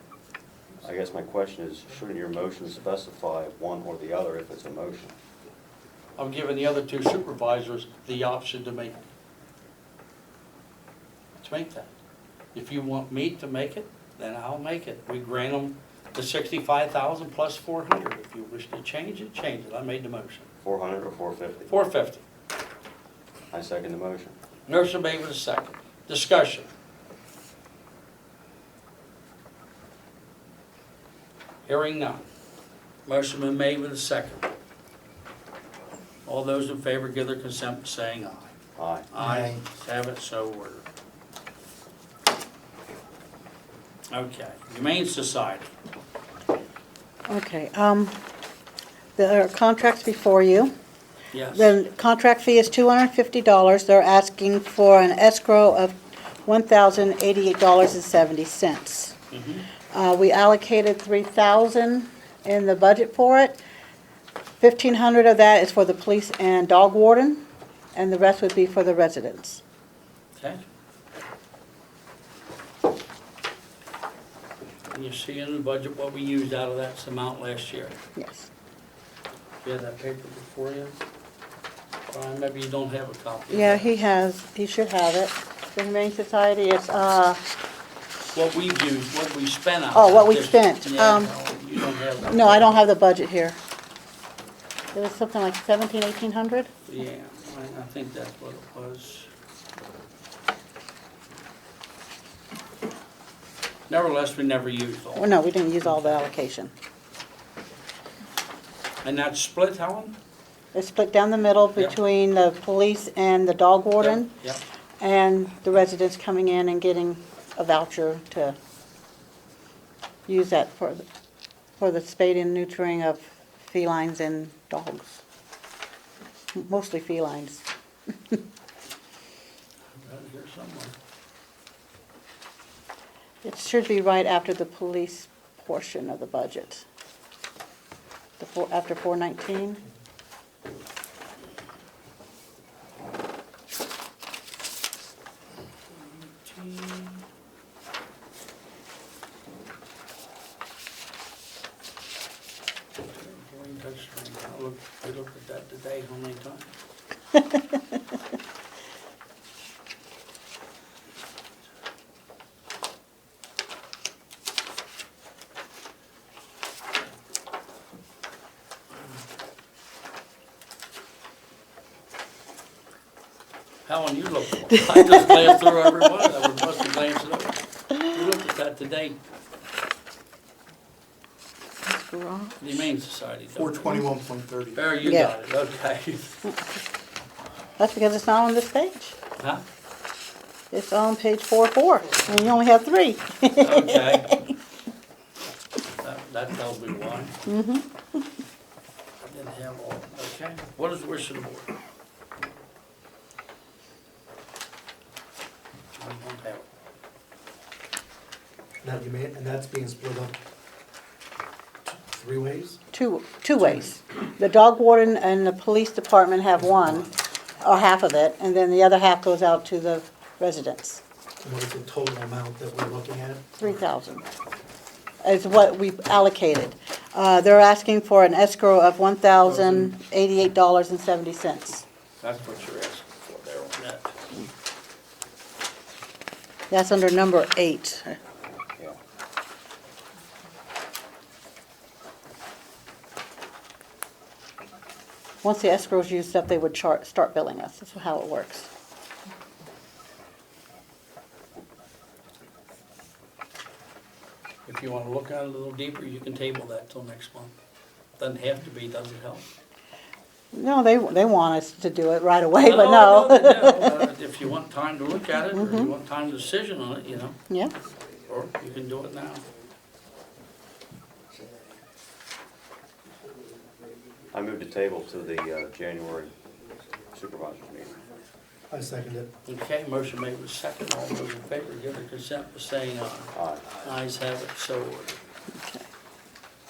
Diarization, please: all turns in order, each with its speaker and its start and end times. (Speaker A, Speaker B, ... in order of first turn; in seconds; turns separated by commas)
Speaker A: 0.8-5.1, Speaker B: 6.2-9.0, Speaker B: 11.4-11.9, Speaker B: 12.5-20.5, Speaker A: 20.6-21.7, Speaker B: 21.7-22.2, Speaker A: 23.5-24.4, Speaker B: 24.7-26.7, Speaker B: 31.7-32.3, Speaker B: 33.1-34.5, Speaker B: 36.3-38.5, Speaker A: 38.8-39.1, Speaker B: 39.1-40.9, Speaker C: 39.2-39.6, Speaker B: 44.1-45.7, Speaker D: 47.3-48.2, Speaker D: 49.2-50.7, Speaker B: 51.3-51.8, Speaker D: 51.5-59.2, Speaker B: 59.3-59.7, Speaker D: 59.9-63.6, Speaker D: 64.6-69.6, Speaker B: 70.3-70.6, Speaker B: 74.9-78.0, Speaker D: 78.2-78.5, Speaker B: 79.6-81.0, Speaker B: 82.1-83.9, Speaker D: 83.5-87.4, Speaker B: 88.3-92.8, Speaker D: 90.0-91.3, Speaker D: 92.2-93.6, Speaker D: 94.9-96.7, Speaker B: 96.9-99.3, Speaker B: 103.9-106.2, Speaker D: 105.2-106.7, Speaker B: 109.0-110.2, Speaker D: 110.7-114.3, Speaker B: 114.0-114.6, Speaker D: 115.0-118.6, Speaker D: 120.3-121.0, Speaker D: 121.8-125.2, Speaker D: 126.5-128.4, Speaker B: 129.9-131.0, Speaker D: 133.4-136.8, Speaker D: 138.4-139.8, Speaker B: 145.9-147.2, Speaker B: 153.0-156.7, Speaker D: 157.3-157.9, Speaker B: 173.9-179.2, Speaker D: 174.8-176.0, Speaker D: 181.8-182.9, Speaker B: 182.6-184.0, Speaker C: 183.5-184.9, Speaker B: 184.8-186.5, Speaker D: 185.0-185.3, Speaker D: 187.8-189.2, Speaker B: 189.4-189.6, Speaker D: 190.7-194.6, Speaker B: 193.6-194.4, Speaker B: 196.0-197.4, Speaker D: 197.5-198.2, Speaker B: 199.2-201.7, Speaker B: 206.0-206.7, Speaker C: 208.8-210.4, Speaker C: 211.8-212.8, Speaker D: 212.9-217.1, Speaker D: 217.6-221.0, Speaker C: 221.4-223.7, Speaker D: 223.6-224.2, Speaker D: 225.2-231.8, Speaker B: 229.4-229.9, Speaker B: 232.2-234.1, Speaker D: 236.7-238.2, Speaker D: 245.4-248.7, Speaker B: 254.7-257.5, Speaker B: 258.2-259.5, Speaker D: 260.5-264.1, Speaker B: 262.6-267.4, Speaker D: 265.5-265.9, Speaker D: 267.5-267.8, Speaker B: 268.3-269.4, Speaker A: 274.3-276.4, Speaker A: 277.1-278.0, Speaker C: 278.7-279.3, Speaker B: 279.5-285.2, Speaker A: 283.3-283.7, Speaker D: 285.5-285.9